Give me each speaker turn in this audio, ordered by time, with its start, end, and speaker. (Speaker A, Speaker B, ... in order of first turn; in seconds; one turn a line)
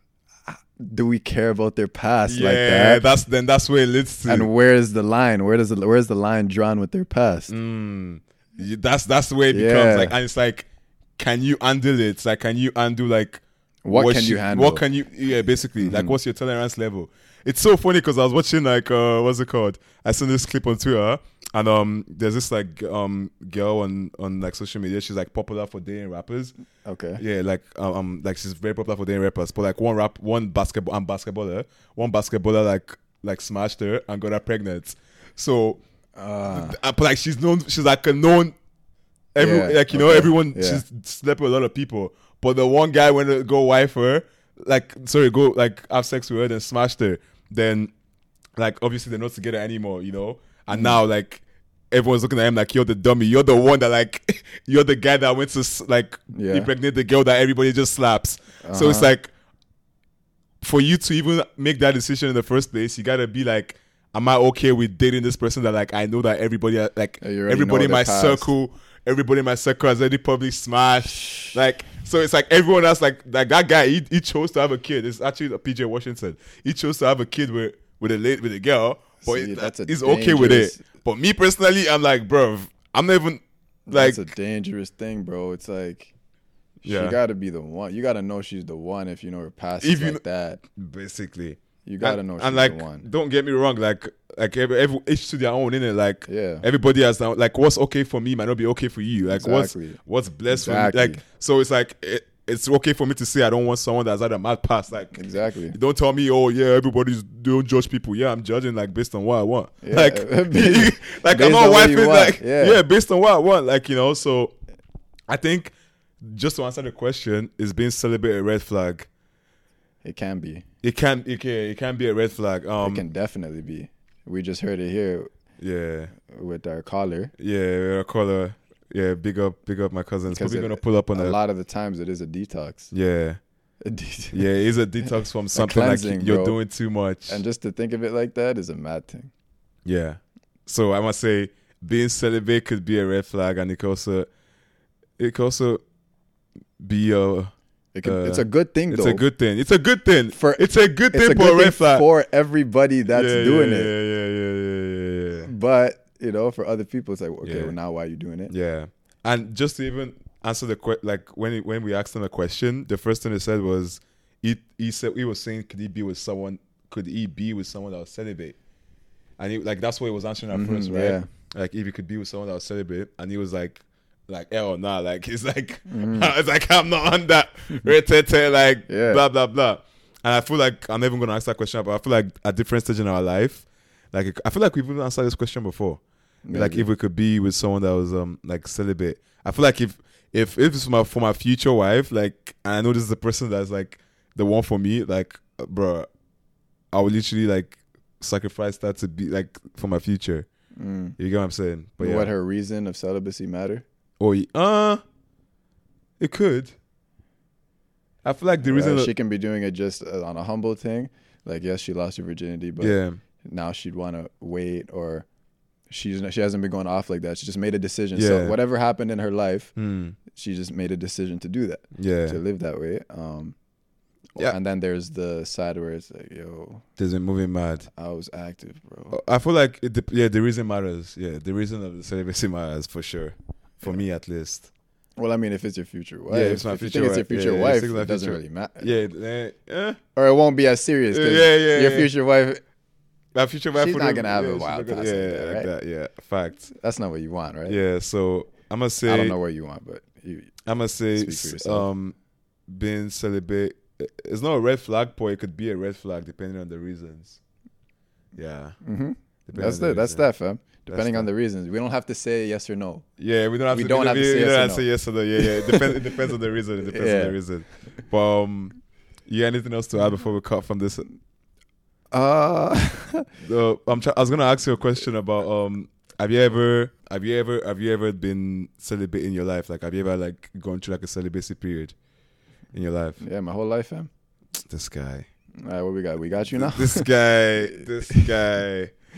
Speaker A: 0.5-3.0
Speaker B: 2.3-4.5
Speaker A: 4.3-7.5
Speaker B: 7.5-26.5
Speaker A: 9.5-10.2
Speaker A: 13.8-14.8
Speaker A: 15.8-16.2
Speaker A: 26.9-27.2
Speaker B: 27.2-35.8
Speaker A: 36.2-36.8
Speaker B: 36.5-38.5
Speaker B: 39.4-47.9
Speaker A: 39.4-40.8
Speaker B: 48.6-59.3
Speaker A: 50.7-51.0
Speaker A: 56.3-56.7
Speaker A: 58.6-59.2
Speaker B: 60.6-84.2
Speaker A: 67.2-68.5
Speaker A: 79.2-80.8
Speaker A: 83.9-86.1
Speaker A: 86.8-90.6
Speaker B: 86.8-87.2
Speaker B: 89.8-90.2
Speaker B: 90.8-114.6
Speaker A: 91.8-93.1
Speaker A: 96.3-96.7
Speaker A: 99.3-101.2
Speaker A: 105.1-105.8
Speaker A: 109.8-112.8
Speaker B: 115.3-115.7
Speaker B: 116.2-119.1
Speaker A: 120.0-120.7
Speaker B: 120.8-123.0
Speaker A: 122.8-125.3
Speaker B: 125.6-126.1
Speaker A: 126.3-127.3
Speaker B: 127.4-131.4
Speaker A: 130.3-132.9
Speaker B: 132.9-133.4
Speaker A: 133.8-134.4
Speaker B: 134.3-137.4
Speaker A: 135.0-136.6
Speaker A: 137.3-139.3
Speaker B: 139.8-144.3
Speaker B: 145.2-145.8
Speaker B: 146.8-147.5
Speaker A: 147.9-149.2
Speaker B: 148.0-152.1
Speaker A: 150.3-153.9
Speaker B: 153.1-155.5
Speaker A: 155.5-158.5
Speaker B: 157.4-157.8
Speaker B: 158.5-168.6
Speaker B: 169.4-186.0
Speaker A: 170.5-171.3
Speaker A: 175.9-176.3
Speaker A: 178.9-179.2
Speaker A: 186.4-186.9
Speaker B: 186.5-196.1
Speaker B: 196.9-200.5
Speaker A: 200.8-201.2
Speaker B: 201.2-202.3
Speaker A: 202.0-203.8
Speaker B: 204.2-205.0
Speaker B: 206.2-206.8
Speaker B: 208.2-209.1
Speaker A: 208.6-215.3
Speaker B: 212.8-213.2
Speaker A: 215.9-219.8
Speaker B: 218.2-218.6
Speaker B: 219.8-220.2
Speaker A: 220.3-223.6
Speaker B: 221.9-222.4
Speaker A: 224.3-226.9
Speaker B: 227.0-227.9
Speaker A: 227.9-229.2
Speaker B: 229.1-234.7
Speaker A: 235.2-238.9
Speaker B: 236.3-240.0
Speaker A: 240.2-242.6
Speaker B: 241.1-242.1
Speaker B: 243.3-246.7
Speaker A: 243.8-245.7
Speaker A: 246.7-247.8
Speaker B: 247.7-249.4
Speaker A: 249.0-250.5
Speaker B: 250.7-252.2
Speaker A: 251.1-251.9
Speaker B: 252.7-257.4
Speaker B: 258.3-258.8
Speaker A: 258.8-263.1
Speaker B: 259.4-260.3
Speaker B: 260.9-261.3
Speaker B: 263.2-271.1
Speaker A: 263.7-266.0
Speaker A: 266.8-267.4
Speaker A: 272.1-273.3
Speaker B: 273.4-281.9
Speaker B: 282.7-283.2
Speaker A: 283.2-284.1
Speaker B: 284.7-285.3
Speaker A: 285.6-287.1
Speaker B: 286.5-288.9